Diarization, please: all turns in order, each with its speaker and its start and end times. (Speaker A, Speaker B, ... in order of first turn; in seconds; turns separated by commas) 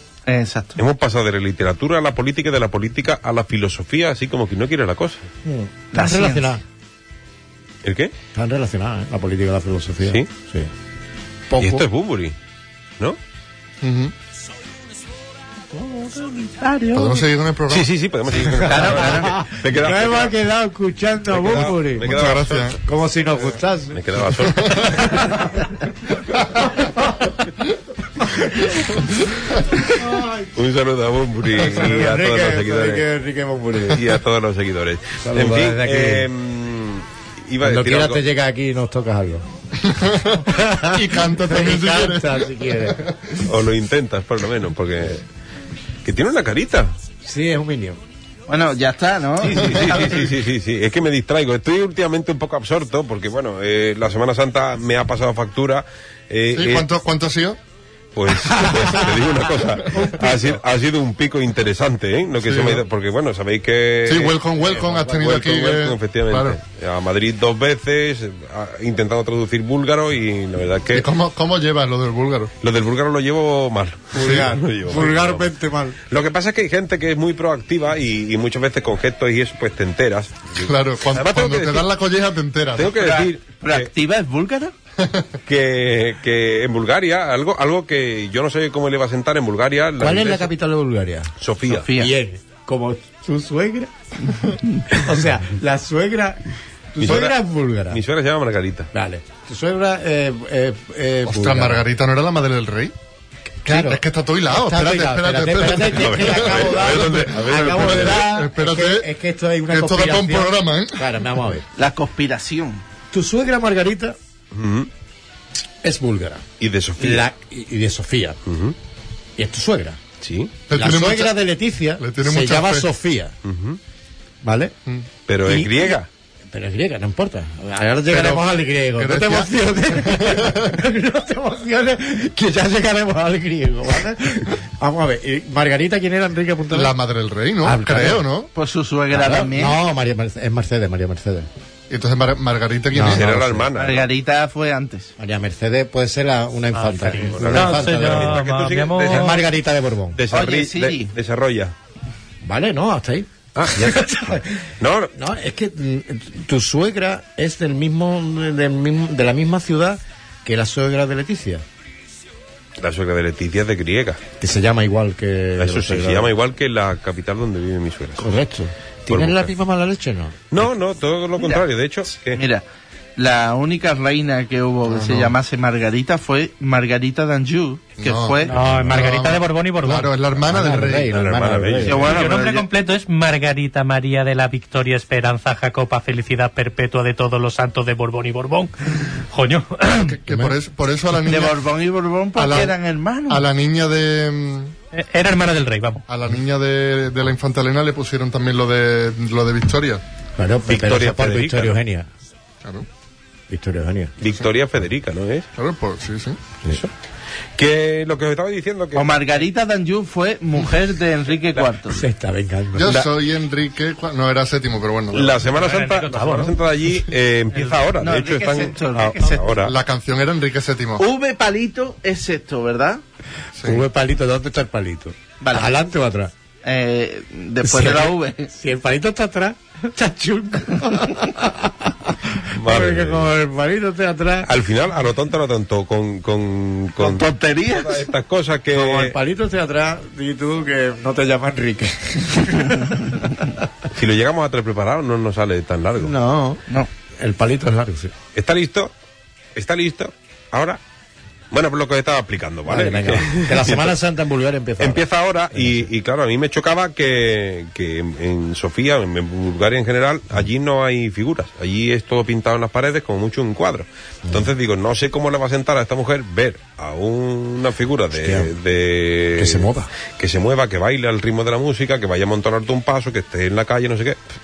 Speaker A: 0.2-0.8, Speaker B: 0.8-5.3, Speaker C: 5.4-6.6, Speaker A: 5.9-6.5, Speaker B: 7.8-8.1, Speaker C: 8.3-10.7, Speaker C: 11.5-11.8, Speaker B: 11.6-12.3, Speaker D: 13.8-14.1, Speaker A: 15.7-17.2, Speaker D: 16.9-17.9, Speaker B: 17.7-20.4, Speaker A: 18.3-19.4, Speaker C: 18.6-22.1, Speaker B: 21.3-22.8, Speaker D: 22.0-22.8, Speaker C: 22.8-25.2, Speaker B: 23.9-25.2, Speaker C: 26.6-27.1, Speaker C: 29.9-30.5, Speaker B: 30.5-33.1, Speaker C: 31.6-34.0, Speaker B: 33.9-38.2, Speaker C: 35.2-36.3, Speaker C: 37.6-39.4, Speaker D: 39.8-43.3, Speaker C: 40.4-43.1, Speaker B: 43.4-45.2, Speaker B: 46.0-46.9, Speaker C: 47.2-48.0, Speaker A: 48.5-50.3, Speaker B: 49.4-56.9, Speaker D: 56.5-57.6, Speaker B: 58.1-64.4, Speaker D: 62.4-62.8, Speaker D: 64.0-66.6, Speaker C: 64.7-65.1, Speaker B: 65.0-71.1, Speaker D: 70.9-72.5, Speaker B: 72.6-75.5, Speaker C: 74.1-76.0, Speaker D: 74.2-74.5, Speaker B: 76.1-81.9, Speaker D: 80.5-83.0, Speaker B: 82.8-83.9, Speaker A: 82.9-84.7, Speaker D: 85.0-85.3, Speaker B: 85.5-90.5, Speaker C: 90.0-91.3, Speaker B: 91.4-91.9, Speaker A: 91.7-92.1, Speaker C: 92.0-98.0, Speaker B: 97.0-97.4, Speaker B: 97.9-98.9, Speaker C: 98.9-101.8, Speaker D: 101.2-102.9, Speaker D: 103.6-109.1, Speaker C: 103.7-111.7, Speaker B: 105.9-108.3, Speaker A: 106.1-107.0, Speaker D: 109.7-111.2, Speaker A: 111.8-112.8, Speaker C: 113.1-114.2, Speaker B: 114.5-114.9, Speaker C: 115.8-116.4, Speaker B: 116.6-117.3, Speaker C: 117.0-118.4, Speaker B: 118.5-118.7, Speaker C: 119.4-120.0, Speaker B: 120.2-120.5, Speaker D: 120.7-121.4, Speaker C: 120.7-123.3, Speaker D: 122.0-122.9, Speaker B: 123.4-123.8, Speaker C: 124.4-124.7, Speaker B: 125.3-126.1, Speaker C: 125.4-125.9, Speaker C: 126.5-136.9, Speaker D: 128.9-130.8, Speaker D: 136.7-138.5, Speaker C: 137.6-138.3, Speaker A: 138.5-139.8, Speaker C: 139.1-141.5, Speaker D: 141.9-143.3, Speaker C: 142.9-143.7, Speaker B: 143.1-144.1, Speaker A: 143.7-145.1, Speaker C: 145.2-148.4, Speaker E: 146.7-149.4, Speaker B: 147.3-149.4, Speaker C: 149.1-150.2, Speaker B: 150.2-151.7, Speaker A: 150.3-151.1, Speaker C: 152.4-154.5, Speaker B: 153.5-155.1, Speaker C: 155.1-161.6, Speaker B: 162.8-164.2, Speaker C: 164.4-166.3, Speaker B: 165.6-168.2, Speaker C: 168.2-170.4, Speaker B: 169.1-169.5, Speaker B: 170.5-172.4, Speaker A: 172.3-172.6, Speaker A: 173.2-178.5, Speaker D: 174.8-175.3, Speaker D: 178.0-181.2, Speaker E: 178.5-180.1, Speaker C: 180.5-182.2, Speaker B: 181.1-182.3, Speaker A: 181.9-182.7, Speaker E: 182.1-190.2, Speaker D: 190.0-191.7, Speaker A: 191.3-193.4, Speaker D: 192.3-194.7, Speaker E: 194.9-196.0, Speaker D: 196.1-200.0, Speaker C: 200.3-202.1, Speaker B: 200.7-201.8, Speaker C: 203.5-204.1, Speaker B: 204.2-205.5, Speaker D: 205.5-206.4, Speaker B: 206.6-206.9, Speaker B: 207.6-209.3, Speaker A: 208.9-212.0, Speaker C: 211.9-213.0, Speaker D: 212.7-215.4, Speaker B: 215.1-219.7, Speaker E: 215.4-216.6, Speaker E: 217.5-217.9, Speaker A: 218.0-219.6, Speaker D: 219.6-221.0, Speaker A: 221.0-223.0, Speaker D: 223.5-223.8, Speaker C: 223.6-226.3, Speaker A: 225.4-225.7, Speaker A: 226.6-228.5, Speaker C: 227.6-234.5, Speaker B: 232.5-233.3, Speaker B: 234.4-239.2, Speaker A: 237.0-238.1, Speaker C: 238.7-242.9, Speaker B: 243.9-246.1, Speaker C: 246.0-246.6, Speaker C: 247.2-248.1, Speaker B: 248.3-248.9, Speaker B: 249.5-250.8, Speaker B: 251.5-253.9, Speaker C: 252.7-255.0, Speaker B: 254.8-274.2, Speaker C: 255.5-255.9, Speaker C: 268.1-268.5, Speaker C: 269.4-269.9